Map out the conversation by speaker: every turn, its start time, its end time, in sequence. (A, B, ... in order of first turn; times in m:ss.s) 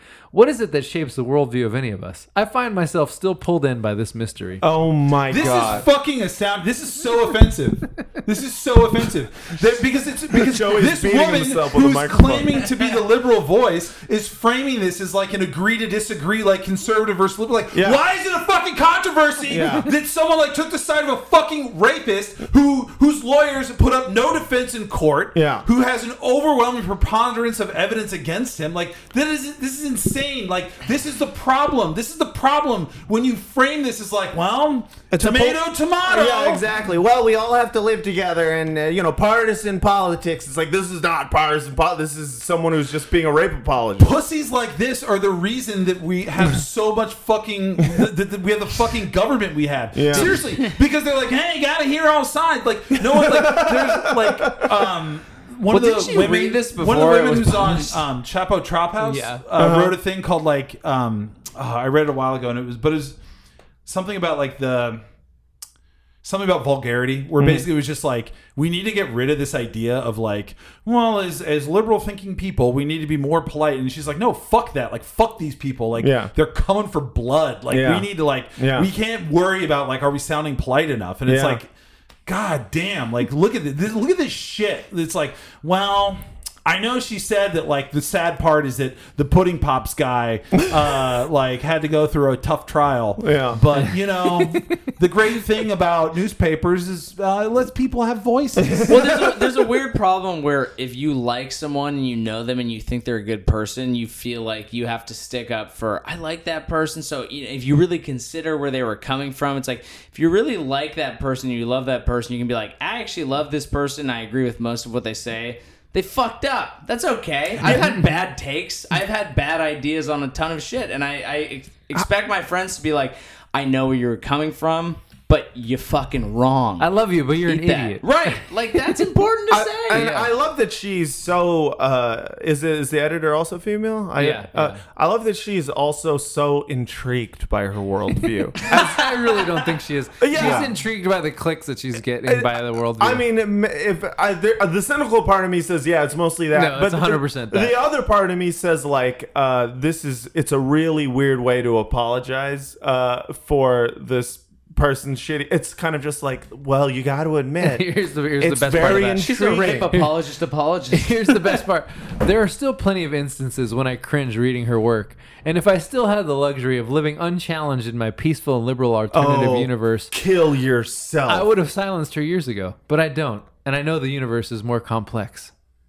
0:00.3-0:04.6 A
0:04.6-0:05.8 B
0:05.3-0:36.6 C
0:10.3-0:12.7 B
0:17.7-0:18.0 B
0:19.5-0:19.9 B
0:25.3-0:25.6 B
0:35.1-0:44.1 B
0:44.0-1:03.2 C
0:49.9-0:50.4 B
0:53.1-0:54.9 B
0:55.7-0:58.0 D
0:59.0-0:59.4 A
0:59.6-1:00.0 B
1:03.8-1:05.0 C
1:06.2-1:21.7 C
1:07.4-1:07.7 B
1:16.0-1:16.3 B
1:17.7-1:18.9 B
1:21.2-1:21.6 B
1:22.2-1:39.3 C
1:33.2-1:33.8 B
1:34.4-1:34.6 A
1:38.6-1:39.0 B
1:38.9-2:06.9 D
2:06.8-2:08.4 A
2:07.4-2:10.2 D
2:09.5-2:19.1 B
2:09.9-2:10.2 A
2:14.2-2:14.8 A
2:18.6-2:23.2 A
2:20.2-2:20.8 B
2:22.3-2:37.8 B
2:26.5-2:27.8 A
2:37.6-2:40.2 A
2:38.4-2:39.9 B
2:39.1-2:41.5 D
2:40.9-2:50.1 A
2:49.1-2:51.5 B
2:51.3-2:55.5 A